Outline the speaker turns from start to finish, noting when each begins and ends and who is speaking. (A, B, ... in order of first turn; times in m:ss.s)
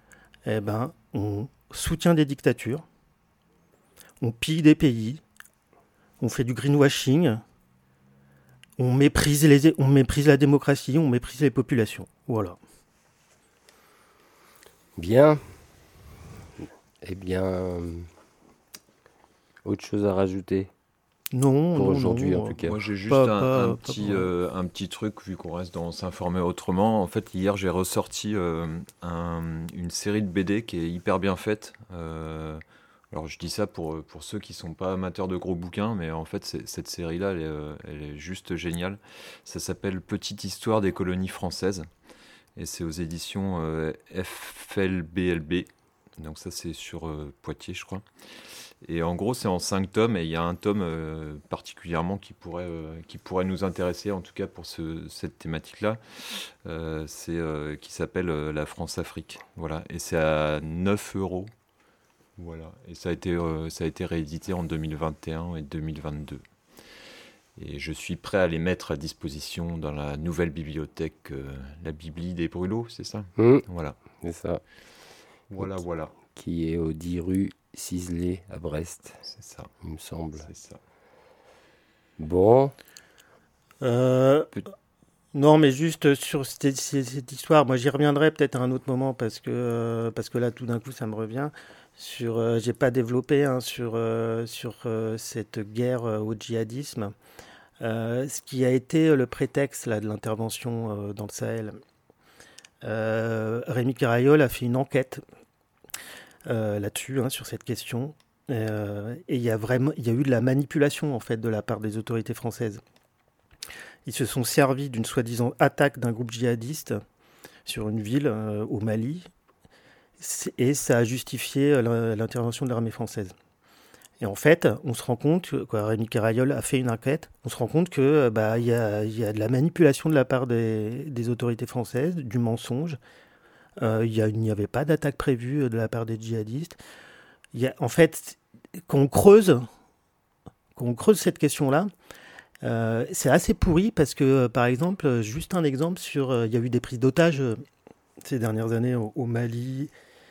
0:00.4-0:02.8 A
0:04.2-0:05.2 A
0:06.2-0:07.4 A
0:08.8-0:12.6 A
0:15.0-0:15.4 B
0:17.0-0:18.1 B
0:19.6-0:20.7 B
0:21.3-0:24.3 A
0:21.7-0:22.8 B
0:22.6-0:41.9 C
0:42.6-0:48.0 C
0:48.8-0:56.0 C
0:56.6-1:01.5 C
1:02.4-1:06.4 C
1:07.6-1:14.0 C
1:13.4-1:14.6 B
1:15.5-1:16.1 C
1:16.3-1:19.2 B
1:19.2-1:19.7 C
1:19.8-1:20.5 B
1:20.4-1:20.8 C
1:22.2-1:22.7 B
1:23.8-1:24.5 A
1:25.3-1:37.1 A
1:37.8-1:41.8 A
1:42.8-1:45.2 A
1:46.5-1:52.8 A
1:54.0-1:57.0 A
1:57.6-1:59.3 A
2:00.2-2:03.3 A
2:04.2-2:13.0 A
2:13.8-2:16.8 A
2:17.5-2:19.6 A
2:20.8-2:21.9 A
2:22.6-2:27.6 A
2:28.2-2:29.9 A